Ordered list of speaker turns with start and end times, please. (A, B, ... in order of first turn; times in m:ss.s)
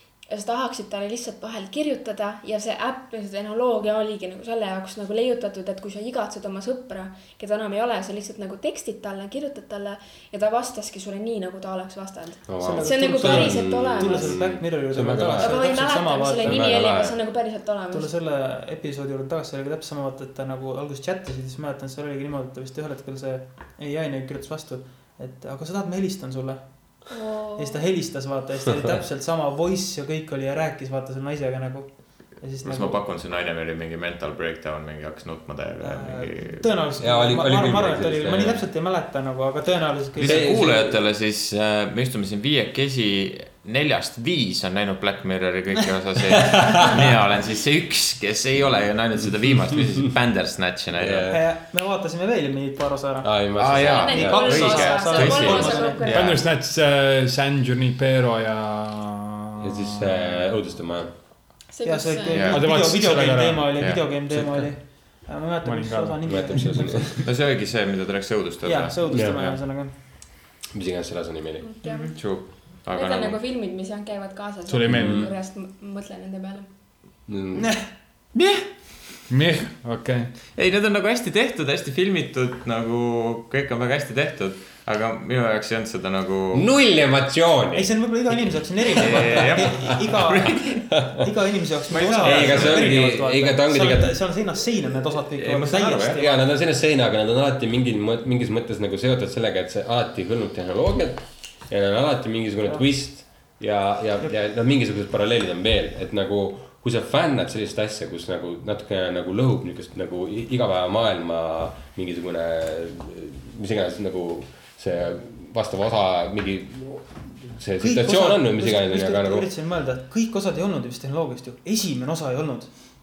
0:00.3-0:14.4 A
0:12.5-0:15.6 B
0:12.6-0:16.8 C
0:15.4-0:18.1 A
0:16.4-0:17.2 B
0:17.9-0:26.9 C
0:27.1-0:27.8 A
0:27.6-0:33.0 C
0:32.6-0:36.7 D
0:35.8-0:40.7 C
0:37.0-0:38.6 B
0:40.2-0:51.3 D
0:40.2-0:41.0 B
0:51.0-0:51.4 B
0:51.3-0:56.2 C
0:53.2-0:54.7 B
0:53.6-0:56.4 D
0:53.8-0:56.4 A
0:56.1-0:59.5 E
0:59.6-1:01.1 B
1:01.7-1:02.6 A
1:01.8-1:07.1 C
1:02.3-1:02.6 D
1:02.5-1:03.7 E
1:03.8-1:04.0 D
1:04.3-1:04.7 B
1:05.6-1:06.8 E
1:06.2-1:07.1 B
1:07.2-1:09.6 D
1:08.6-1:09.9 C
1:09.1-1:09.4 B
1:10.7-1:11.7 B
1:11.6-1:16.7 A
1:11.8-1:12.2 C
1:12.2-1:13.4 D
1:14.7-1:15.2 E
1:14.9-1:15.3 B
1:17.3-1:17.7 B
1:17.6-1:17.9 C
1:19.3-1:20.3 E
1:20.6-1:26.7 D
1:26.5-1:28.1 B
1:27.7-1:36.4 C
1:29.0-1:29.9 B
1:29.0-1:30.8 D
1:30.9-1:31.2 B
1:31.9-1:33.0 D
1:32.2-1:34.2 B
1:35.3-1:36.2 D
1:36.2-1:59.5 B
1:57.8-2:02.7 C